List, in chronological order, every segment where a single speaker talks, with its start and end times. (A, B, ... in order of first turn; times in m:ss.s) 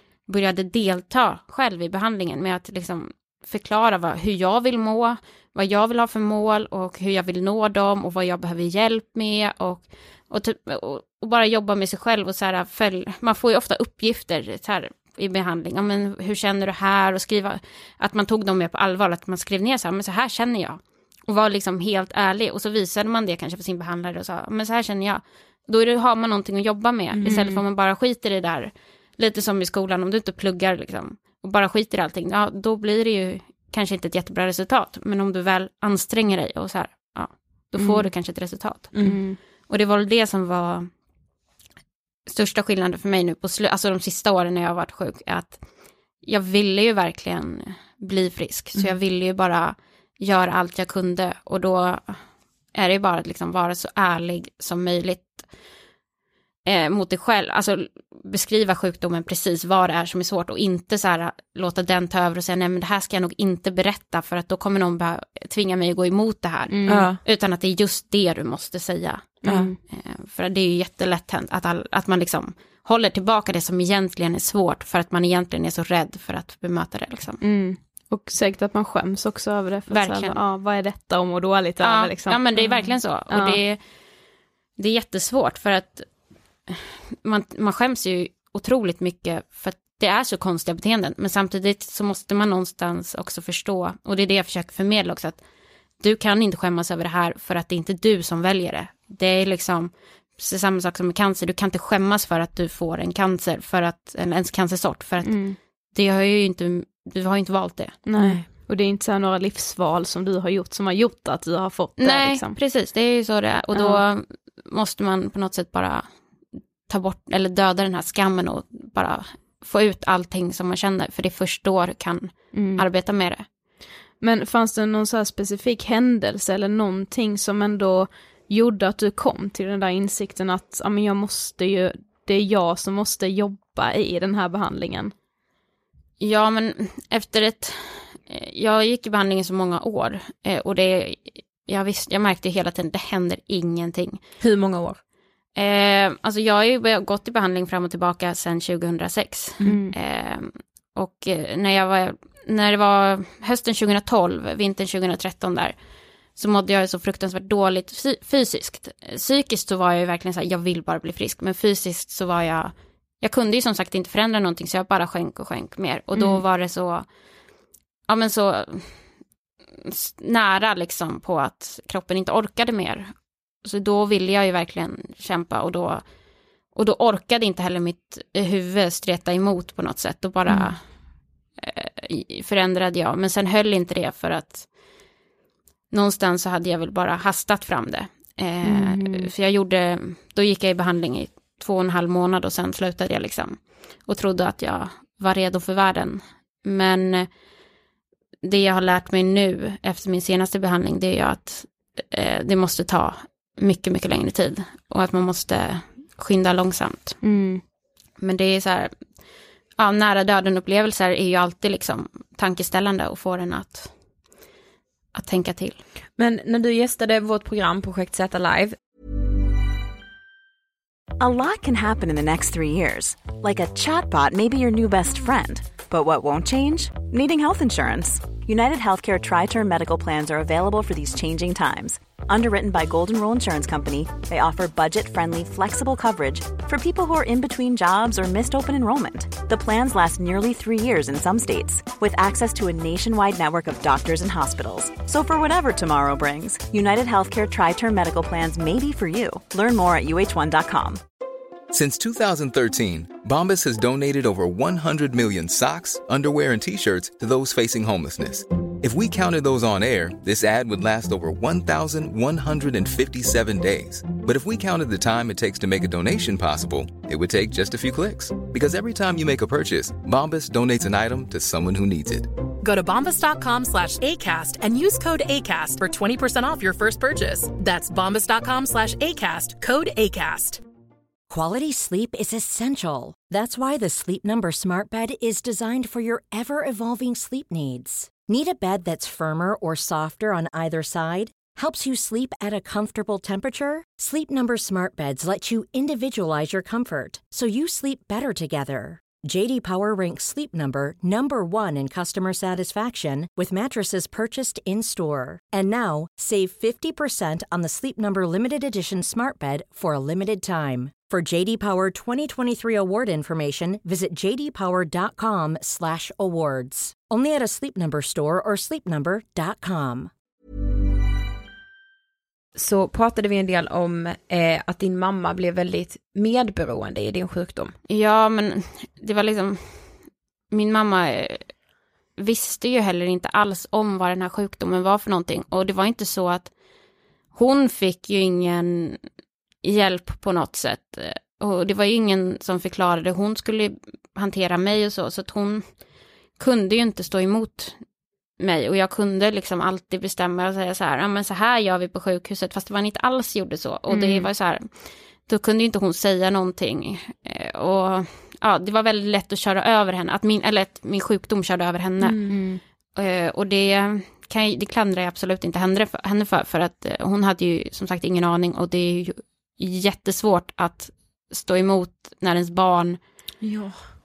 0:00.3-0:39.2 A
0:27.2-0:27.6 B
0:37.8-0:38.1 B
0:38.9-0:39.2 C
0:39.0-0:39.4 B
0:39.7-0:40.9 A
0:42.3-0:45.6 A
0:46.2-0:52.2 A
0:52.7-0:55.5 A
0:56.6-1:17.4 A
1:06.7-1:07.1 B
1:06.9-1:07.2 C
1:09.4-1:09.8 B
1:09.5-1:09.7 C
1:17.4-1:23.6 B
1:19.9-1:20.4 A
1:21.8-1:23.8 A
1:24.8-1:26.1 A
1:26.7-1:35.4 A
1:36.0-1:48.0 A
1:45.2-1:45.6 B
1:48.1-1:52.6 B
1:48.1-1:48.5 C
1:52.0-1:56.1 A
1:53.8-1:54.0 B
1:56.9-2:03.5 A
2:02.5-2:02.8 B
2:04.2-2:15.1 B
2:16.2-2:24.2 A
2:24.4-2:25.0 C
2:25.6-2:35.8 A
2:29.6-2:29.9 B
2:36.4-2:47.1 A
2:46.2-2:46.4 B
2:48.1-2:49.1 A
2:49.8-2:53.1 A
2:53.6-2:56.0 A
2:56.8-3:00.8 A
3:01.6-3:04.7 A
3:05.9-3:17.3 A
3:08.6-3:09.3 B
3:18.4-3:27.2 A
3:27.2-3:27.6 B
3:28.2-3:28.9 A
3:29.8-3:33.9 A
3:35.1-3:35.8 A
3:36.2-3:38.8 C
3:41.2-4:11.0 D
4:11.7-4:32.3 E
4:32.6-4:40.6 F
4:41.3-5:20.1 G
5:22.6-5:27.8 C
5:27.9-5:31.5 A
5:32.2-5:36.5 A
5:37.3-5:39.0 A
5:39.6-5:45.7 A
5:46.4-5:47.8 A
5:48.4-6:13.0 A
5:53.9-5:54.2 B
6:02.0-6:02.4 C
6:02.3-6:02.6 B
6:13.4-6:13.8 C